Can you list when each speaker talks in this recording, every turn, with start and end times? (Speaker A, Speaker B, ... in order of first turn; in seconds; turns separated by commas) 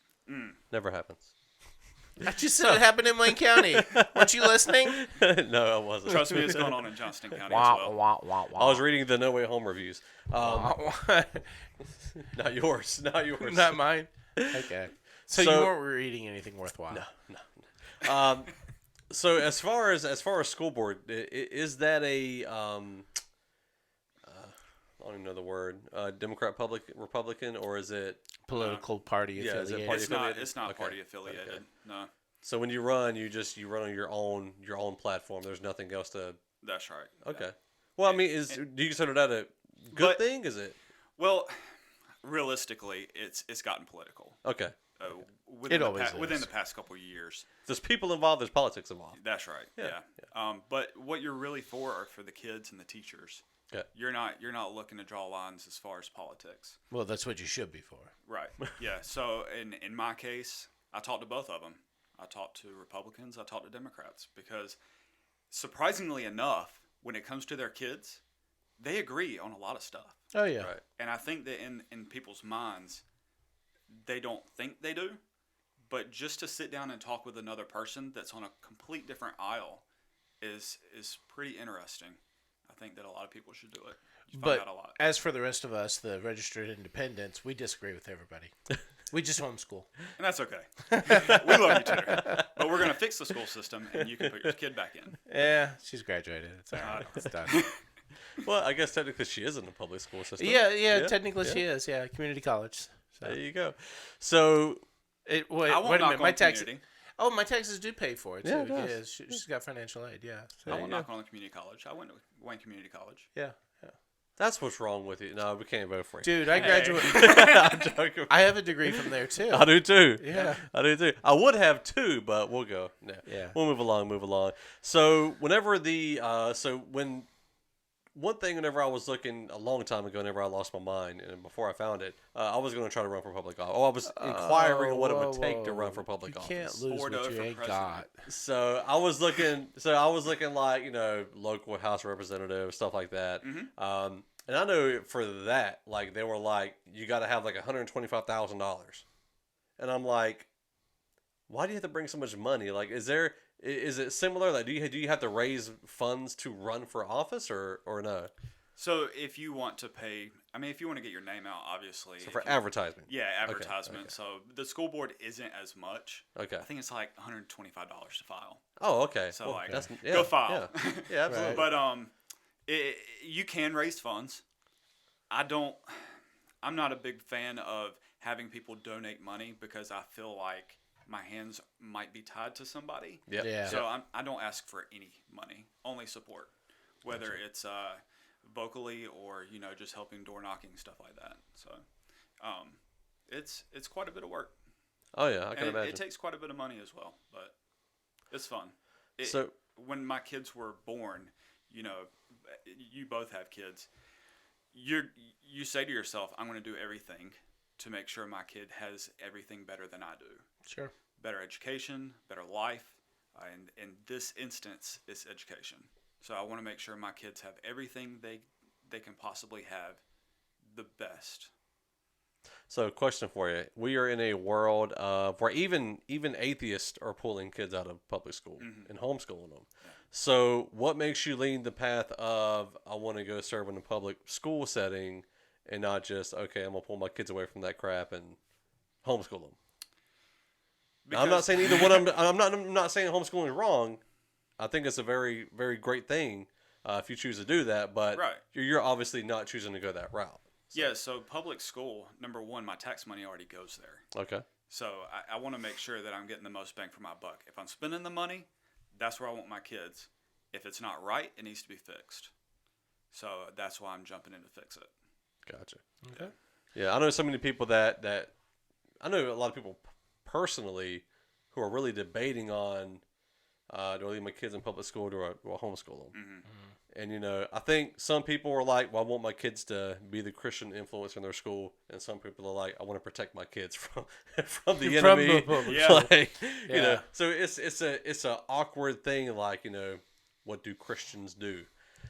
Speaker A: 0.3-0.6, Speaker B: 0.7-1.3, Speaker C: 2.2-5.1, Speaker B: 2.5-6.7, Speaker A: 6.1-8.0, Speaker C: 7.5-8.8, Speaker B: 8.5-10.8, Speaker C: 10.4-11.6, Speaker B: 12.2-14.5, Speaker C: 13.4-17.1, Speaker B: 15.3-15.7, Speaker B: 16.9-18.6, Speaker B: 19.1-23.1, Speaker B: 24.3-28.4, Speaker C: 28.5-30.1, Speaker A: 28.5-28.9, Speaker B: 29.4-31.6, Speaker A: 29.8-32.1, Speaker B: 32.4-36.4, Speaker A: 36.6-37.5, Speaker B: 37.2-40.8, Speaker A: 38.0-38.6, Speaker A: 39.9-40.2, Speaker A: 41.2-41.5, Speaker A: 42.2-44.4, Speaker B: 44.4-44.8, Speaker A: 45.0-47.5, Speaker C: 45.7-46.5, Speaker B: 47.7-49.2, Speaker A: 49.1-56.8, Speaker C: 56.9-58.1, Speaker A: 58.3-64.8, Speaker A: 65.5-68.2, Speaker A: 68.8-70.2, Speaker C: 70.3-70.7, Speaker A: 71.0-73.0, Speaker A: 73.9-75.2, Speaker A: 75.9-79.8, Speaker A: 80.4-85.0, Speaker C: 84.3-88.5, Speaker C: 89.1-89.9, Speaker A: 90.2-95.2, Speaker C: 90.9-92.4, Speaker C: 95.3-97.6, Speaker A: 96.8-97.8, Speaker B: 98.4-101.6, Speaker C: 100.4-103.4, Speaker B: 103.2-104.8, Speaker C: 105.3-110.9, Speaker A: 105.7-106.8, Speaker B: 108.4-109.4, Speaker B: 110.7-111.1, Speaker A: 110.7-113.3, Speaker C: 113.3-114.0, Speaker B: 114.4-127.3, Speaker C: 116.2-117.7, Speaker A: 116.5-117.8, Speaker C: 118.3-120.7, Speaker C: 123.3-123.6, Speaker B: 128.1-136.8, Speaker C: 134.0-138.3, Speaker A: 136.8-138.1, Speaker B: 138.3-149.1, Speaker A: 143.4-143.7, Speaker B: 149.8-150.5, Speaker B: 151.5-158.3, Speaker A: 158.8-168.6, Speaker B: 162.2-164.1, Speaker B: 166.4-166.7, Speaker B: 168.8-171.7, Speaker A: 169.3-172.1, Speaker C: 171.3-171.6, Speaker A: 172.7-174.4, Speaker A: 175.3-191.8, Speaker B: 183.3-183.9, Speaker C: 183.4-183.8, Speaker B: 187.1-187.4, Speaker A: 192.4-194.5, Speaker B: 195.1-196.0, Speaker A: 195.5-197.5, Speaker A: 198.3-203.9, Speaker B: 199.2-199.5, Speaker A: 204.7-210.4, Speaker C: 210.7-210.9, Speaker A: 211.2-220.0, Speaker A: 220.7-221.5, Speaker B: 222.7-238.4, Speaker A: 228.6-228.9, Speaker B: 239.0-239.6, Speaker A: 241.1-242.2, Speaker B: 241.1-244.0, Speaker B: 244.6-250.9, Speaker A: 248.1-248.4, Speaker A: 250.7-254.1, Speaker B: 254.1-254.5, Speaker A: 254.7-262.3, Speaker A: 263.1-264.9, Speaker B: 265.5-265.9, Speaker C: 266.0-266.3, Speaker B: 266.8-268.3, Speaker B: 269.0-273.0, Speaker B: 273.7-276.2, Speaker A: 276.1-276.5, Speaker B: 276.9-291.7, Speaker C: 284.8-287.0, Speaker A: 285.7-286.1